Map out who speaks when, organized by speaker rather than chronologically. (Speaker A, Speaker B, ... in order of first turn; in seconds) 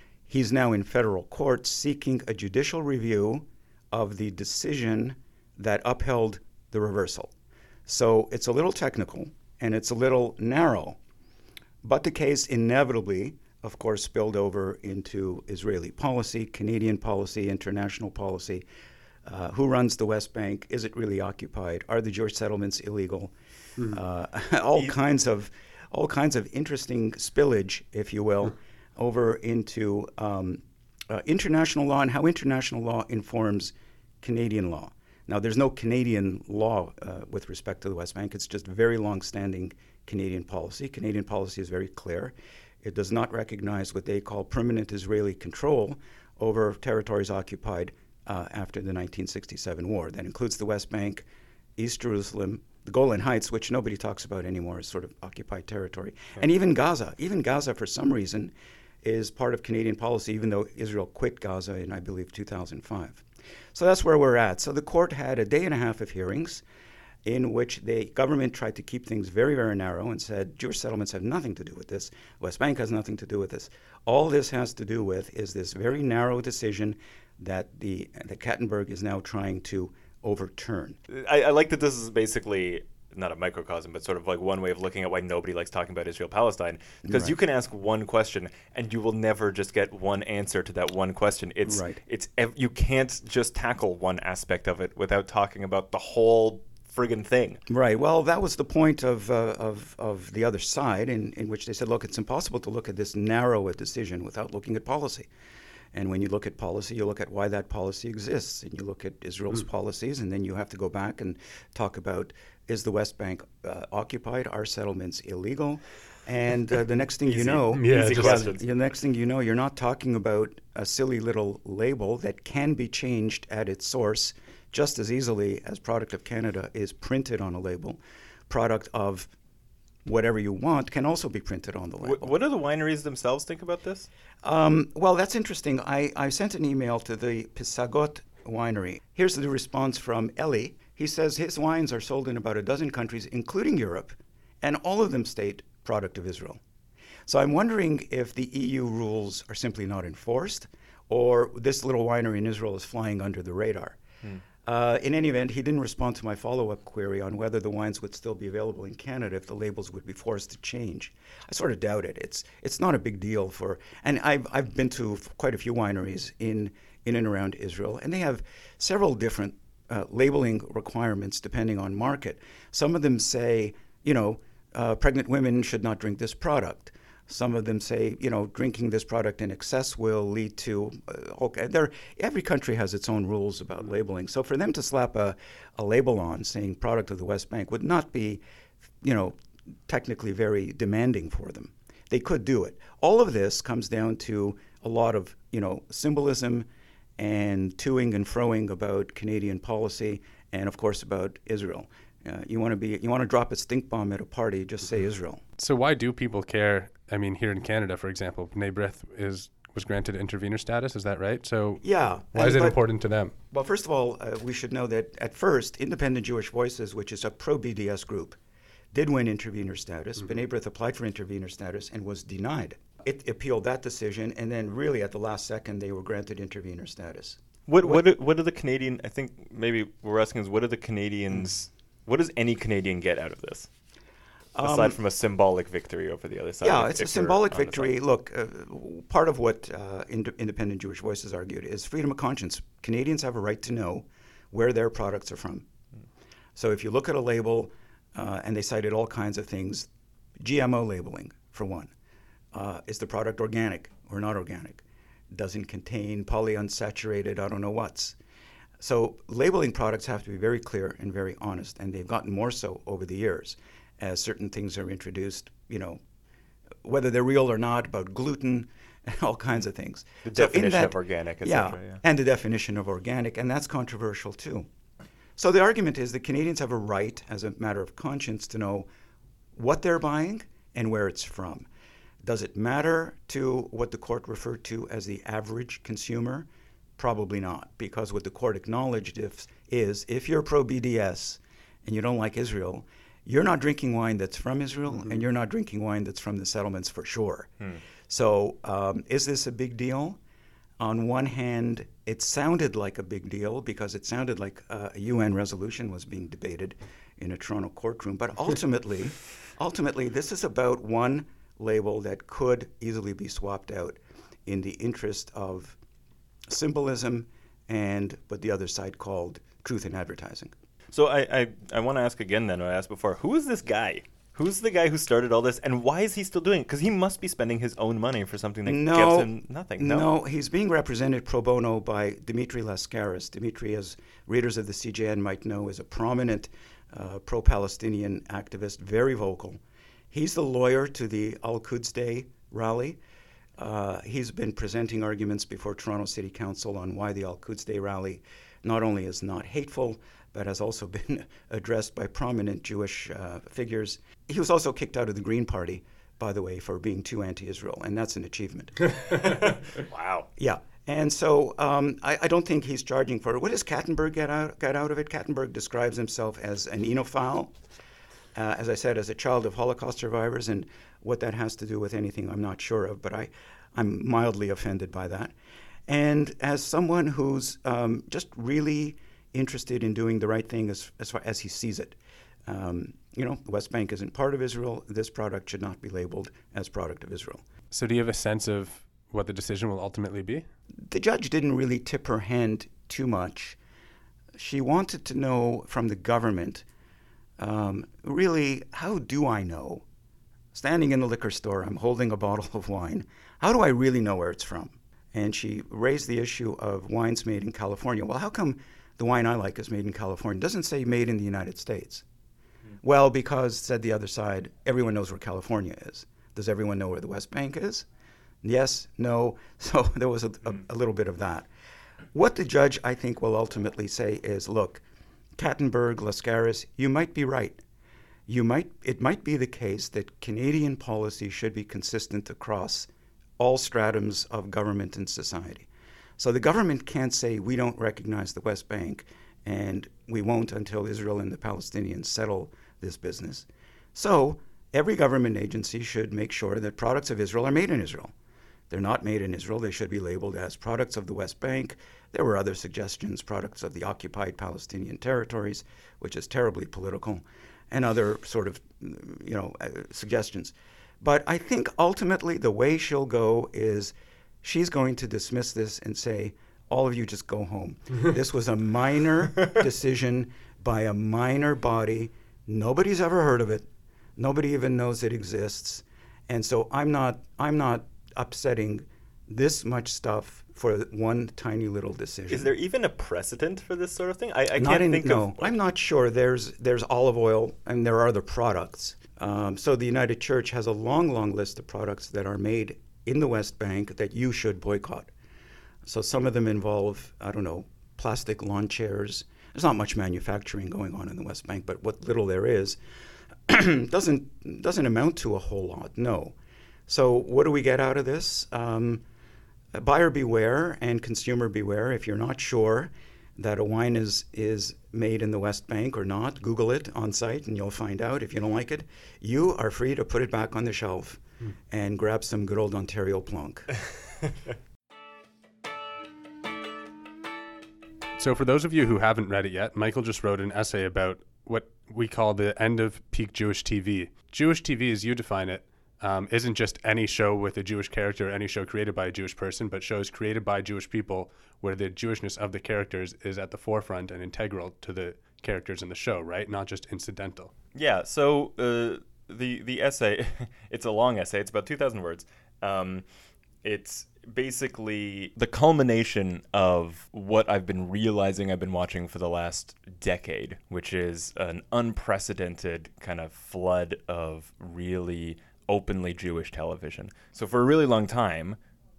Speaker A: 0.3-7.3, 7.9-11.0, 11.8-18.6, 19.2-23.3, 23.9-51.2, 51.8-63.2, 63.7-66.6, 67.2-81.0, 87.0-87.3, 91.7-92.0, 97.7-105.3, 105.9-129.3, 130.1-132.3, 134.4-146.6, 147.3-154.0, 154.6-188.4, 189.0-189.3, 189.9-196.7, 197.2-205.4, 211.8-212.8, 213.5-218.4, 218.9-228.0, 234.6-235.0, 236.6-245.7, 246.6-251.9, 252.5-258.2, 258.8-266.0, 266.8-274.7, 275.4-278.9, 279.6-281.7, 282.2-286.5, 287.0-297.5, 298.1-300.2, 300.8-315.8, 316.5-320.5, 328.7-339.6, 340.1-343.0, 343.6-359.6, 360.4-367.5, 368.4-375.3, 375.9-387.4, 390.9-393.6, 394.4-396.6, 397.4-399.8, 400.5-412.1, 412.8-417.9, 418.4-421.5, 422.1-424.8, 425.4-427.6, 428.3-435.7, 436.2-448.1, 448.7-482.5, 484.6-495.1, 495.9-502.8, 503.5-506.4, 506.9-509.0, 509.7-523.7
Speaker B: 81.1-97.6, 117.2-118.7, 132.0-134.1, 227.7-233.7, 234.6-237.9, 270.2-272.0, 320.9-330.1, 359.9-360.3, 482.3-485.5, 547.8-553.0, 553.6-568.6
Speaker C: 117.7-118.5, 205.6-211.8, 212.3-213.3, 387.7-390.5, 528.2-547.5